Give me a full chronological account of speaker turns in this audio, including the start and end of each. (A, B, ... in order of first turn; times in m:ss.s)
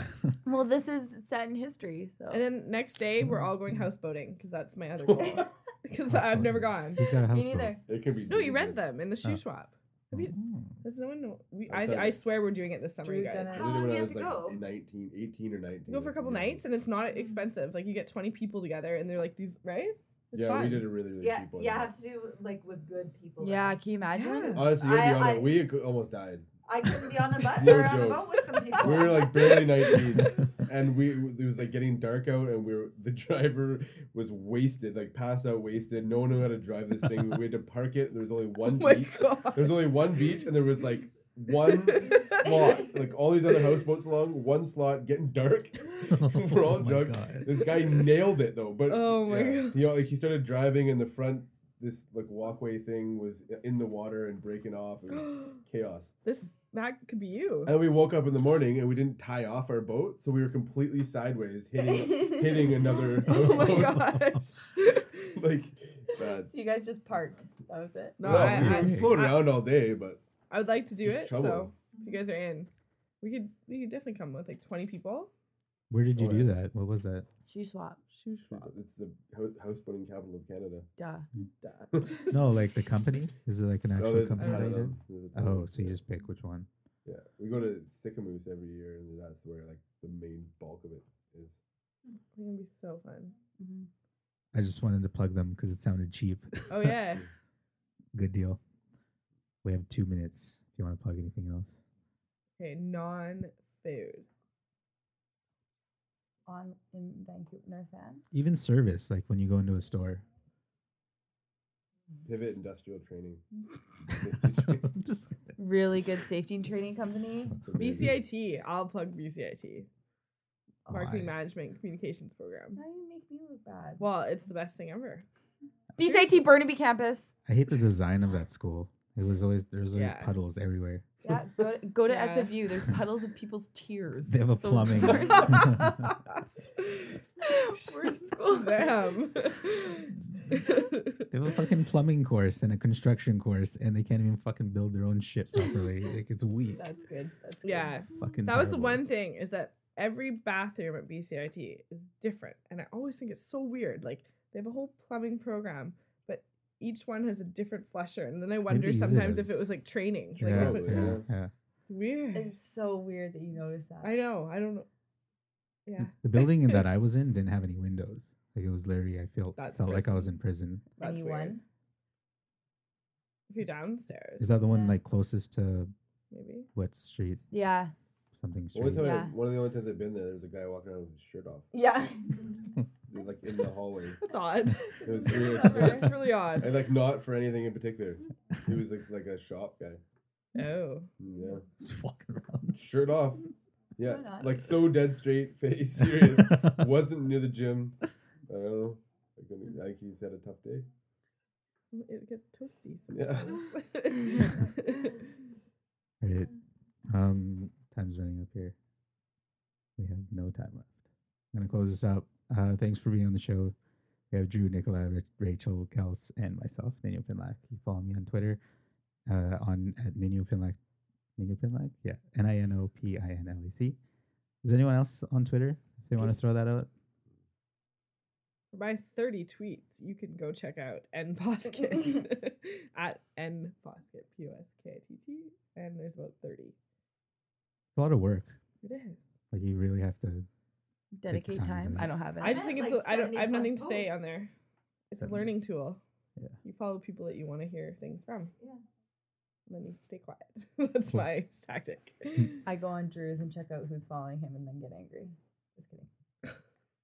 0:00.4-0:02.4 A
0:02.3-0:07.0 B
0:03.2-0:03.8 C
0:06.1-0:07.8 C
0:07.3-0:07.8 A
0:07.9-0:08.9 D
0:08.3-0:13.7 B
0:10.1-0:10.8 C
0:11.7-0:12.2 D
0:13.0-0:13.8 A
0:13.5-0:14.6 E
0:13.6-0:16.6 D
0:15.9-0:20.9 B
0:20.3-0:21.9 D
0:21.2-0:25.7 E
0:23.4-0:24.8 A
0:24.2-0:24.6 B
0:24.5-0:26.5 D
0:26.6-0:29.6 E
0:27.4-0:56.1 D
0:29.1-0:30.0 B
0:38.6-0:40.0 B
0:41.5-0:42.8 B
0:46.1-0:47.8 C
0:48.9-0:50.0 B
0:55.1-0:55.6 B
0:56.2-0:57.8 B
0:57.7-1:04.1 D
1:02.1-1:02.6 A
1:02.9-1:05.4 B
1:03.3-1:04.4 C
1:05.3-1:06.5 D
1:06.5-1:08.2 A
1:08.2-1:09.6 B
1:08.2-1:10.2 D
1:08.2-1:09.2 C
1:10.5-1:12.7 B
1:11.0-1:11.8 D
1:13.2-1:15.3 B
1:15.9-1:17.3 C
1:16.1-1:16.6 D
1:17.5-1:18.0 A
1:18.1-1:18.7 B
1:18.5-1:20.9 D
1:21.0-1:21.3 A
1:21.6-1:22.4 B
1:21.9-1:22.3 D
1:22.3-1:26.7 C
1:24.0-1:26.0 D
1:24.4-1:24.8 B
1:27.0-1:31.6 D
1:32.4-1:33.4 B
1:33.6-1:33.9 A
1:34.5-1:37.2 C
1:36.7-1:37.2 B
1:38.1-1:38.6 C
1:39.6-1:41.8 C
1:42.6-1:44.3 B
1:46.5-1:48.2 A
1:48.3-1:50.2 C
1:52.2-1:53.4 D
1:54.1-1:54.9 D
1:54.2-1:55.6 C
1:55.6-1:57.5 A
1:57.5-1:58.1 C
1:57.6-1:58.2 D
1:57.8-1:59.9 B
2:00.9-2:01.3 C
2:00.9-2:02.8 B
2:02.8-2:04.0 A
2:04.0-2:05.2 B
2:06.0-2:07.3 A
2:06.0-2:06.4 B
2:07.5-2:11.0 C
2:10.0-2:10.3 B
2:11.2-2:15.7 A
2:12.1-2:12.6 B
2:14.3-2:16.1 C
2:15.5-2:16.2 B
2:16.8-2:17.1 B
2:17.4-2:18.9 A
2:18.1-2:21.3 B
2:21.3-2:26.9 C
2:26.8-2:28.1 A
2:27.6-2:41.2 B
2:28.1-2:29.0 C
2:38.7-2:39.7 C
2:40.4-2:41.3 D
2:40.4-2:41.5 C
2:41.9-2:42.5 B
2:42.3-2:44.2 A
2:44.0-2:44.9 B
2:45.9-2:46.8 B
2:46.0-2:50.8 C
2:49.6-2:50.3 B
2:51.0-2:51.6 B
2:51.0-2:51.6 A
2:53.5-2:54.5 B
2:54.4-2:55.9 C
2:54.7-2:55.0 A
2:56.3-2:56.7 B
2:56.8-2:57.4 C
2:57.5-2:57.9 A
2:58.3-2:59.2 C
2:58.7-3:01.7 D
2:59.0-2:59.3 A
3:01.7-3:02.5 A
3:03.1-3:04.2 D
3:04.2-3:06.8 B
3:05.0-3:10.0 D
3:05.3-3:06.0 A
3:10.6-3:11.1 B
3:11.2-3:11.6 D
3:11.8-3:12.9 C
3:12.8-3:13.5 D
3:14.0-3:20.9 D
3:14.0-3:14.7 A
3:16.1-3:16.8 C
3:21.9-3:25.3 B
3:23.1-3:23.6 D
3:26.2-3:26.5 C
3:27.1-3:28.8 C
3:30.0-3:31.0 C
3:31.5-3:33.7 C
3:34.3-3:38.6 C
3:39.3-3:40.8 C
3:41.4-3:44.0 C
3:44.6-3:46.9 C
3:48.7-3:56.8 B
3:58.0-3:58.6 C
3:58.8-3:59.3 B
3:59.5-4:00.5 C
4:01.2-4:02.7 A
4:01.3-4:02.1 C
4:02.4-4:04.5 B
4:02.4-4:04.3 E
4:05.1-4:06.0 B
4:05.2-4:05.5 C
4:06.6-4:08.5 B
4:09.7-4:12.6 B
4:12.6-4:16.1 A